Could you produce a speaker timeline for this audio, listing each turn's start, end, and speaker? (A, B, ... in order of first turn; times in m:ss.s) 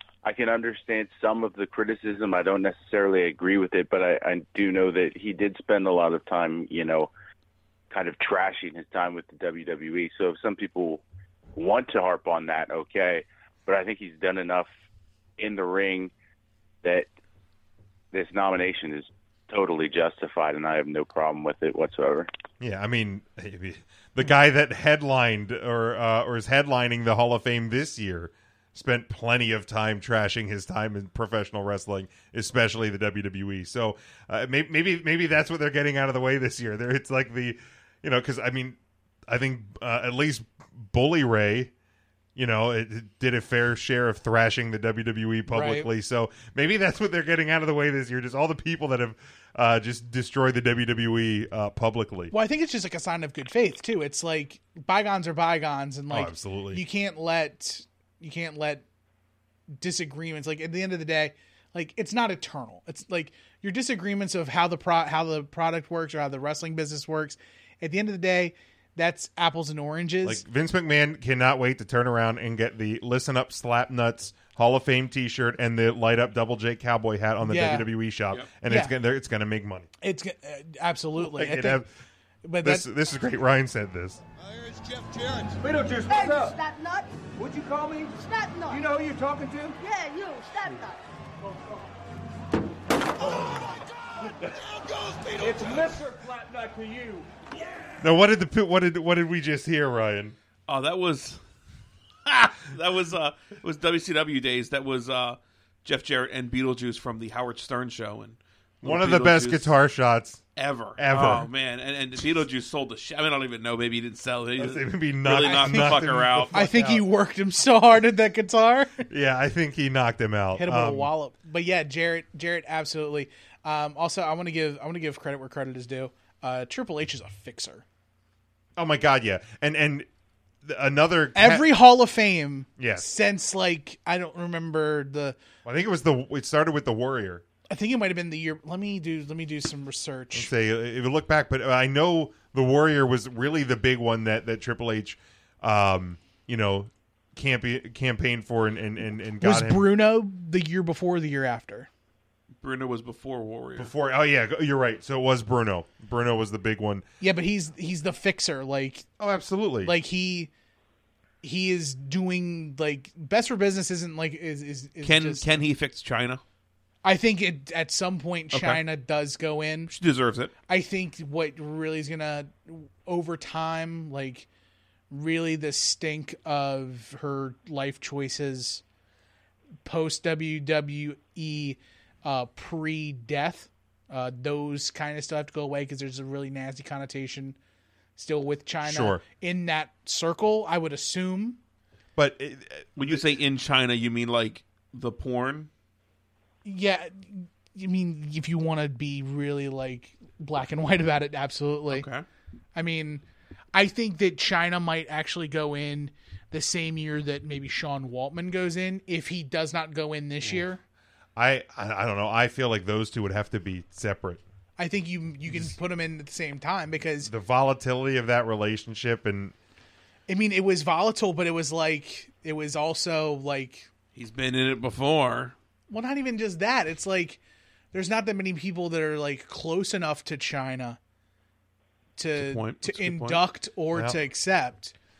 0:00.2-0:07.1 A
0:07.9-0:11.0 A
0:11.5-0:14.7 A
0:15.4-0:16.1 A
0:18.1-0:22.3 A
0:22.6-0:41.7 B
0:42.4-0:52.3 B
0:45.5-0:45.9 C
0:52.3-0:58.8 C
0:56.1-0:56.8 B
0:59.7-1:10.4 C
1:10.2-1:19.9 B
1:17.4-1:17.9 C
1:18.6-1:18.9 C
1:20.0-1:21.8 C
1:21.2-1:21.9 B
1:22.4-1:22.8 C
1:22.6-1:24.2 B
1:24.6-1:26.6 D
1:26.0-1:27.2 E
1:27.4-1:29.8 D
1:28.2-1:28.8 E
1:29.8-1:31.0 E
1:33.2-1:38.0 D
1:38.0-1:40.3 B
1:40.7-1:41.4 F
1:42.3-1:49.7 F
1:48.8-1:50.4 B
1:50.6-1:56.6 F
1:51.0-1:51.5 B
1:54.6-1:57.0 B
1:55.3-1:59.0 C
1:59.1-2:01.1 B
2:00.6-2:07.8 C
2:08.8-2:10.1 B
2:10.6-2:11.7 B
2:11.3-2:15.4 C
2:12.8-2:13.0 B
2:15.6-2:17.4 B
2:17.7-2:20.5 C
2:20.3-2:29.9 B
2:29.4-2:31.9 C
2:32.6-2:33.9 F
2:33.8-2:37.0 B
2:37.2-2:39.0 C
2:39.2-2:39.9 B
2:39.8-2:40.5 C
2:41.4-2:45.5 C
2:45.0-2:46.4 F
2:47.0-2:49.9 C
2:48.5-2:48.8 F
2:49.9-2:50.5 F
2:50.7-2:54.5 C
2:55.1-2:58.8 C
2:59.8-3:07.6 C
3:08.2-3:11.6 C
3:08.8-3:09.2 B
3:12.2-3:13.2 B
3:13.0-3:15.7 F
3:16.6-3:22.0 C
3:21.9-3:22.2 F
3:22.7-3:23.2 C
3:23.7-3:30.8 C
3:31.4-3:34.4 B
3:34.8-3:37.3 C
3:37.2-3:39.5 B
3:40.3-3:43.9 C
3:44.1-3:45.5 F
3:45.9-3:47.4 C
3:47.9-3:51.0 C
3:52.2-3:54.9 C
3:52.3-3:53.4 F